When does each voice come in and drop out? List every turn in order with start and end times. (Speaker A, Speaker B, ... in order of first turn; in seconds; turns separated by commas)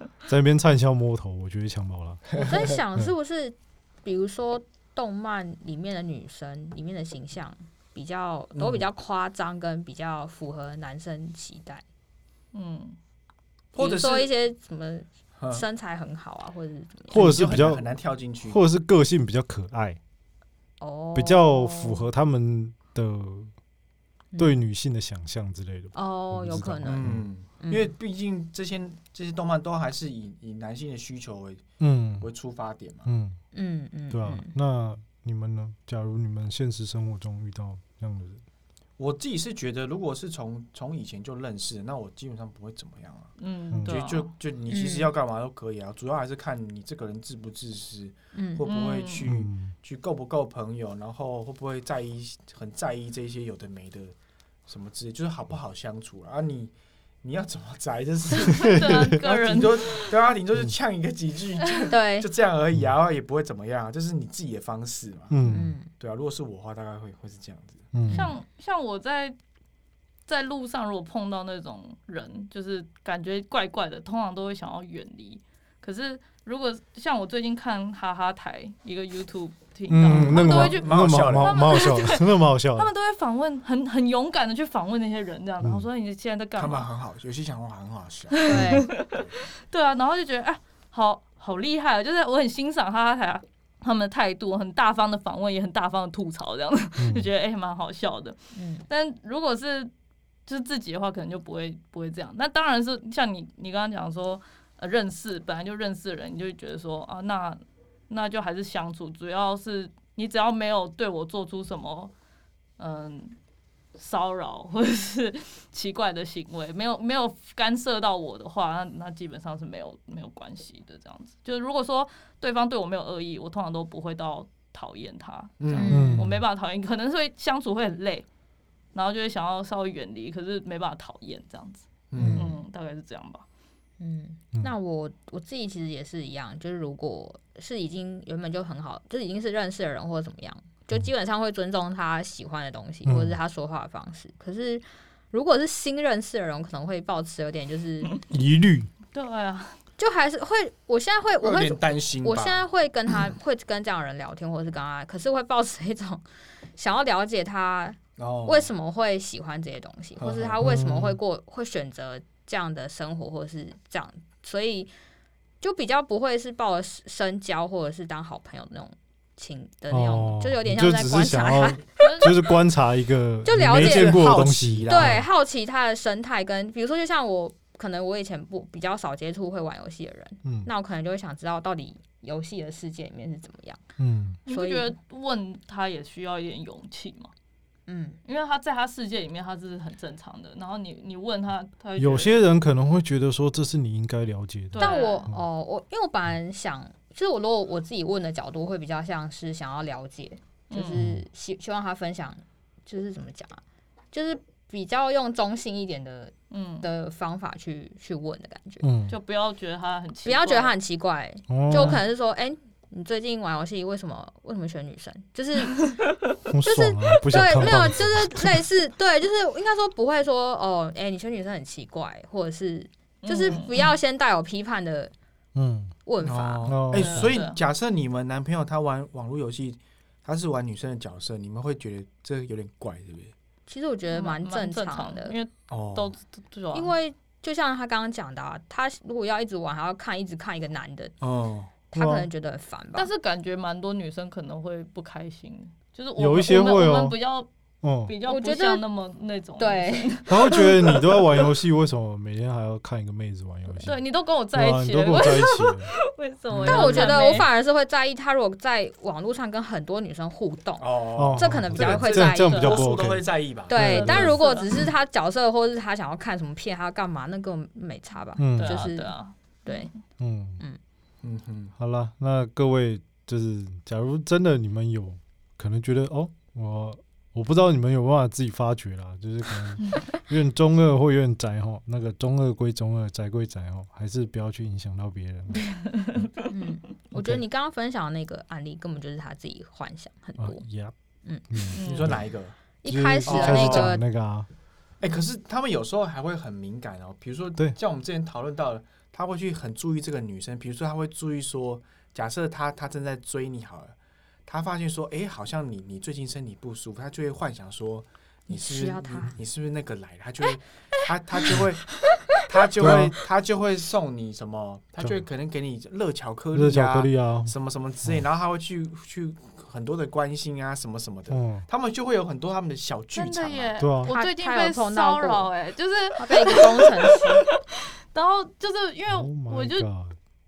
Speaker A: 0.3-3.1, Speaker B: 2.4-11.8, Speaker C: 8.6-8.9, Speaker D: 12.5-13.0, Speaker C: 13.8-14.3, Speaker B: 13.8-17.4, Speaker C: 15.4-15.7, Speaker A: 17.1-17.9, Speaker C: 17.1-18.6, Speaker A: 18.5-20.0, Speaker B: 20.8-22.1, Speaker A: 21.1-23.5, Speaker A: 24.4-27.2, Speaker B: 25.9-27.1, Speaker C: 26.9-31.6, Speaker B: 27.6-27.9, Speaker A: 31.8-32.3, Speaker C: 32.2-33.1, Speaker A: 33.1-33.4, Speaker B: 33.5-34.5, Speaker A: 34.1-38.4, Speaker C: 39.0-43.3, Speaker D: 43.4-44.3, Speaker A: 43.7-44.0, Speaker C: 43.8-54.1, Speaker B: 44.7-45.1, Speaker B: 48.3-48.7, Speaker D: 48.7-49.2, Speaker A: 49.2-49.7, Speaker C: 54.7-56.7, Speaker C: 57.2-65.3, Speaker D: 58.4-60.1, Speaker A: 58.6-59.1, Speaker B: 61.9-62.3, Speaker A: 65.3-65.8, Speaker B: 65.4-65.9, Speaker C: 66.0-67.8, Speaker A: 67.9-68.3, Speaker D: 68.1-69.4, Speaker D: 70.3-86.9, Speaker A: 79.9-82.9, Speaker C: 80.0-81.9, Speaker A: 85.6-85.9, Speaker C: 86.6-89.2, Speaker D: 88.3-99.9, Speaker B: 88.5-88.9, Speaker A: 97.0-97.3, Speaker B: 98.6-98.8, Speaker D: 100.5-112.1, Speaker D: 112.8-113.3, Speaker D: 114.0-128.3, Speaker C: 125.6-125.9, Speaker B: 125.8-126.3, Speaker A: 125.9-126.4, Speaker D: 128.9-133.5, Speaker C: 132.1-132.4, Speaker B: 132.2-132.6, Speaker B: 134.0-148.2, Speaker A: 143.1-143.4, Speaker A: 148.3-148.9, Speaker D: 149.1-149.8, Speaker B: 150.0-156.2, Speaker C: 151.4-152.6, Speaker B: 156.8-164.9, Speaker C: 158.2-158.7, Speaker C: 160.2-160.6, Speaker A: 160.6-161.2, Speaker B: 165.6-172.5, Speaker A: 169.9-175.2, Speaker D: 172.0-172.4, Speaker B: 173.4-174.3, Speaker C: 173.6-175.2, Speaker B: 174.9-183.8, Speaker A: 180.4-180.7, Speaker A: 184.0-184.4, Speaker D: 184.5-187.3, Speaker B: 184.5-184.9, Speaker B: 187.9-188.2, Speaker D: 188.3-192.3, Speaker A: 192.0-195.4, Speaker D: 194.7-195.3, Speaker B: 194.8-203.6, Speaker D: 200.7-201.1, Speaker A: 201.0-201.2, Speaker B: 204.1-208.9, Speaker D: 206.5-206.9, Speaker A: 208.8-209.2, Speaker D: 209.1-210.7, Speaker B: 210.2-215.9, Speaker A: 211.5-212.0, Speaker A: 216.5-218.6, Speaker B: 216.6-225.1, Speaker D: 223.2-223.9, Speaker A: 225.6-225.9, Speaker B: 226.1-226.7, Speaker C: 226.2-233.3, Speaker A: 226.7-227.4, Speaker D: 226.9-227.6, Speaker B: 233.7-235.4, Speaker D: 234.1-236.9, Speaker C: 235.7-236.1, Speaker B: 236.7-241.2, Speaker C: 241.2-242.2, Speaker B: 241.9-243.1, Speaker D: 242.9-247.5, Speaker A: 246.2-247.2, Speaker A: 247.8-248.2, Speaker D: 248.1-251.0, Speaker B: 248.3-248.8, Speaker B: 249.6-250.6, Speaker A: 250.3-254.0, Speaker D: 253.7-257.5, Speaker A: 254.5-255.9, Speaker C: 256.5-257.2, Speaker B: 256.6-262.9, Speaker C: 260.8-263.8, Speaker A: 261.2-264.4, Speaker D: 262.5-262.7, Speaker B: 263.7-269.1, Speaker D: 263.8-264.8, Speaker A: 268.4-268.9, Speaker D: 268.6-269.9, Speaker B: 269.7-269.9, Speaker A: 270.2-270.6, Speaker C: 271.2-271.8, Speaker A: 271.8-286.3, Speaker D: 285.5-286.5, Speaker B: 286.5-290.6, Speaker A: 287.1-287.4, Speaker A: 290.4-290.9, Speaker B: 291.2-291.7, Speaker A: 291.5-292.2, Speaker D: 291.8-292.1, Speaker C: 291.8-292.6, Speaker B: 292.8-294.0, Speaker A: 292.9-294.5, Speaker C: 293.2-293.9, Speaker C: 295.0-303.9, Speaker C: 304.5-311.9, Speaker B: 308.5-309.3, Speaker C: 312.4-323.8, Speaker A: 312.8-313.2, Speaker A: 316.5-317.5, Speaker A: 321.3-321.7, Speaker D: 323.1-329.9, Speaker A: 323.8-324.1, Speaker B: 324.1-325.5, Speaker B: 326.2-327.5, Speaker A: 329.1-330.2